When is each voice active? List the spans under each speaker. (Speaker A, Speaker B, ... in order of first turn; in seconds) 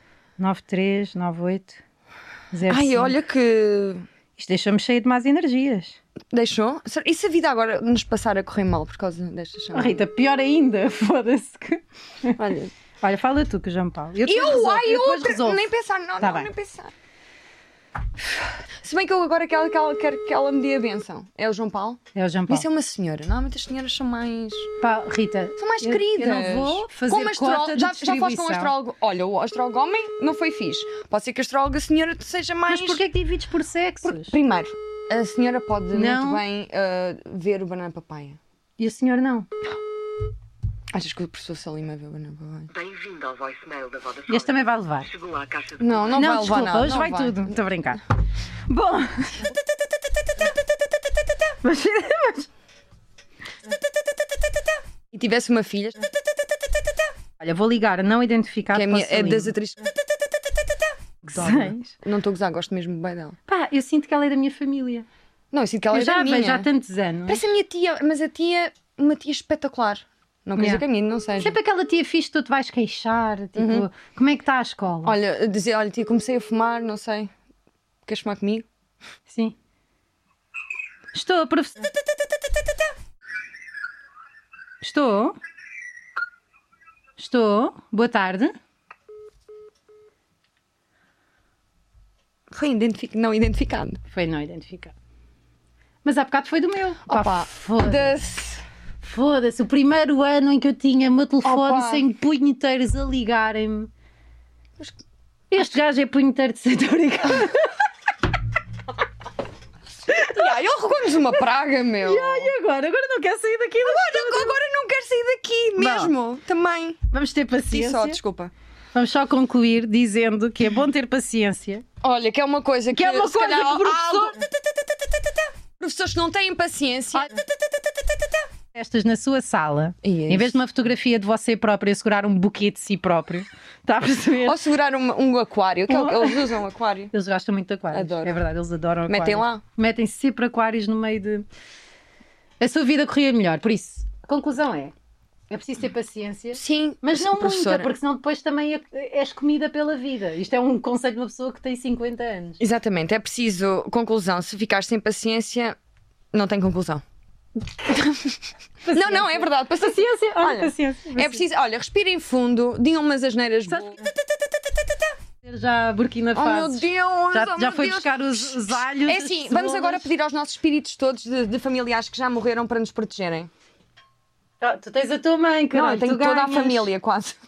Speaker A: 0.4-1.8, 2.5-3.2, 4.4-6.0, 9.7-15.7, 16.2-16.5, 22.1-22.7, 24.8-28.7, 32.7-34.3, 35.9-36.4, 38.8-39.5, 44.3-45.1, 46.2-48.0, 48.7-49.5, 51.6-52.5, 57.4-59.5, 61.2-61.9, 63.5-65.1, 65.9-67.4, 70.6-70.8, 71.4-75.2, 79.3-79.6, 81.1-81.8, 84.8-85.4, 87.2-88.5, 94.1-94.9, 96.0-98.2, 99.0-103.9, 105.5-107.9, 110.1-110.5, 112.0-114.6, 115.8-116.1, 117.1-118.2, 118.9-121.8, 122.9-124.4, 128.7-134.6, 135.9-136.6, 137.1-141.5, 142.6-144.9, 145.5-152.6, 158.9-161.4, 165.4-170.1, 174.6-176.9
Speaker B: 2.7-4.1, 6.3-10.0, 12.4-12.7, 14.2-16.9, 18.8-24.7, 25.6-33.1, 34.0-38.4, 40.9-42.7, 45.8-47.6, 55.1-56.0, 58.7-59.8, 61.3-63.4, 65.5-66.7, 67.3-71.5, 73.6-73.9, 75.0-77.3, 78.1-78.7, 92.5-94.0, 97.1-98.6, 101.4-102.0, 110.1-112.5, 113.8-117.0, 117.7-118.5, 122.0-124.3, 125.8-127.3, 130.0-130.6, 134.4-137.1, 137.9-138.4, 139.1-139.6, 146.5-147.9, 152.6-155.8, 156.3-157.0, 158.9-164.0, 166.3-173.5, 175.7-177.4
Speaker C: 42.7-46.3